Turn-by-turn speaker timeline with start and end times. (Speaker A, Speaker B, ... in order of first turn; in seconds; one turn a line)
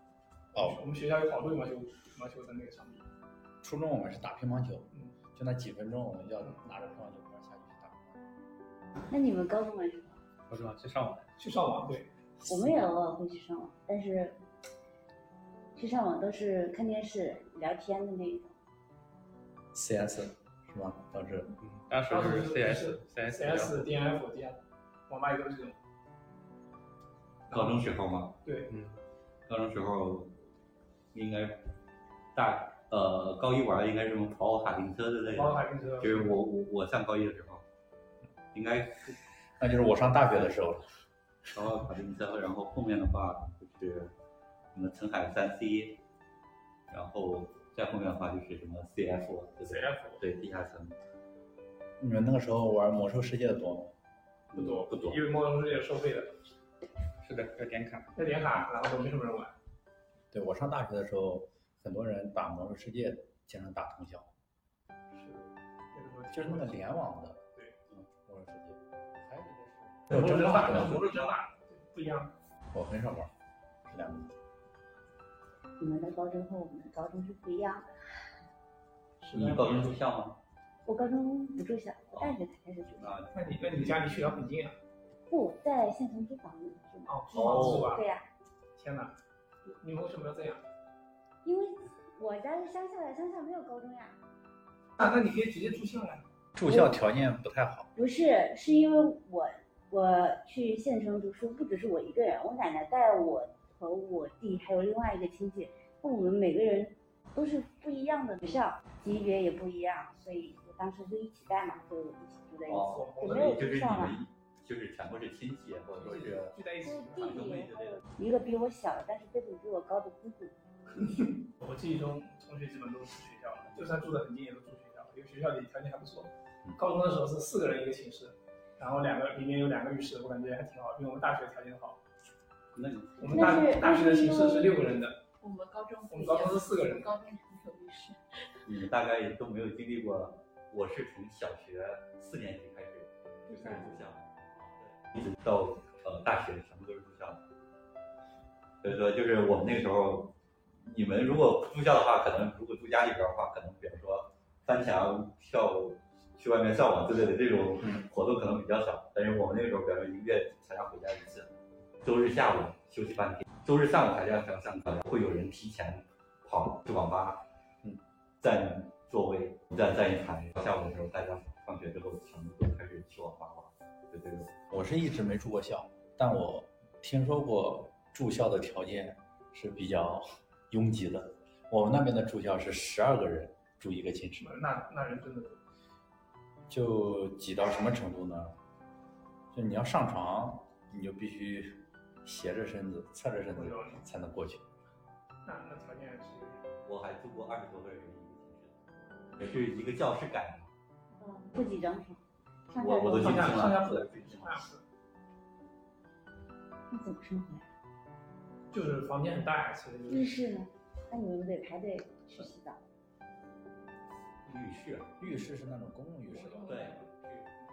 Speaker A: 0.5-0.8
Speaker B: 0.6-3.0
Speaker A: 3.6-8.2
Speaker C: 9.1-10.2
Speaker D: 10.5-11.3
Speaker B: 11.4-12.1
Speaker C: 12.5-14.4
Speaker C: 15.8-18.6
Speaker A: 19.7-21.5
Speaker D: 21.6-23.9
Speaker B: 22.1-25.8
Speaker B: 27.5-27.9
Speaker E: 27.5-28.4
Speaker B: 28.4-28.7
Speaker D: 28.7-29.0
Speaker E: 29.5-30.4
Speaker E: 31.1-31.6
Speaker E: 32.4-37.6
Speaker B: 35.3-36.4
Speaker E: 38.5-39.2
Speaker A: 39.6-40.9
Speaker E: 41.5-44.1
Speaker E: 44.7-46.0
Speaker E: 46.9-51.0
Speaker B: 49.7-50.2
Speaker A: 52.0-53.9
Speaker B: 54.5-56.3
Speaker E: 54.5-55.2
Speaker D: 57.2-58.1
Speaker B: 58.2-59.5
Speaker A: 60.3-64.3
Speaker B: 65.1-66.9
Speaker A: 66.3-67.4
Speaker A: 68.2-71.0
Speaker B: 70.1-72.3
Speaker E: 70.7-71.3
Speaker A: 72.7-73.3
Speaker A: 73.9-74.3
Speaker C: 75.8-77.9
Speaker B: 79.2-80.0
Speaker E: 79.3-80.4
Speaker C: 80.9-83.2
Speaker E: 82.9-84.5
Speaker B: 83.3-84.8
Speaker C: 85.3-87.2
Speaker B: 87.1-88.0
Speaker E: 87.3-87.9
Speaker C: 87.7-88.3
Speaker B: 88.8-89.2
Speaker B: 89.7-90.6
Speaker C: 91.4-94.2
Speaker B: 95.0-96.2
Speaker A: 96.6-97.9
Speaker C: 96.7-97.0
Speaker C: 98.0-114.2
Speaker E: 112.7-116.6
Speaker B: 112.8-113.7
Speaker B: 115.9-117.5
Speaker C: 116.8-120.6
Speaker E: 117.2-118.0
Speaker B: 120.9-132.0
Speaker E: 132.8-133.6
Speaker B: 133.2-135.2
Speaker C: 133.3-134.8
Speaker F: 135.4-138.2
Speaker B: 136.1-137.1
Speaker E: 138.7-144.3
Speaker C: 143.5-144.0
Speaker E: 144.8-147.4
Speaker E: 148.8-161.5
Speaker E: 162.0-167.4
Speaker E: 168.4-174.5
Speaker A: 174.7-184.5
Speaker B: 184.4-185.6
Speaker A: 186.7-188.5
Speaker A: 189.5-194.6
Speaker B: 193.5-194.0
Speaker B: 195.4-196.7
Speaker E: 196.8-198.8
Speaker E: 199.4-200.7
Speaker C: 201.2-203.5
Speaker E: 202.8-204.7
Speaker B: 203.1-204.8
Speaker C: 206.9-207.7
Speaker B: 208.7-210.4
Speaker C: 210.1-212.8
Speaker E: 214.4-215.1
Speaker A: 215.2-216.8
Speaker B: 216.3-217.5
Speaker E: 216.7-217.0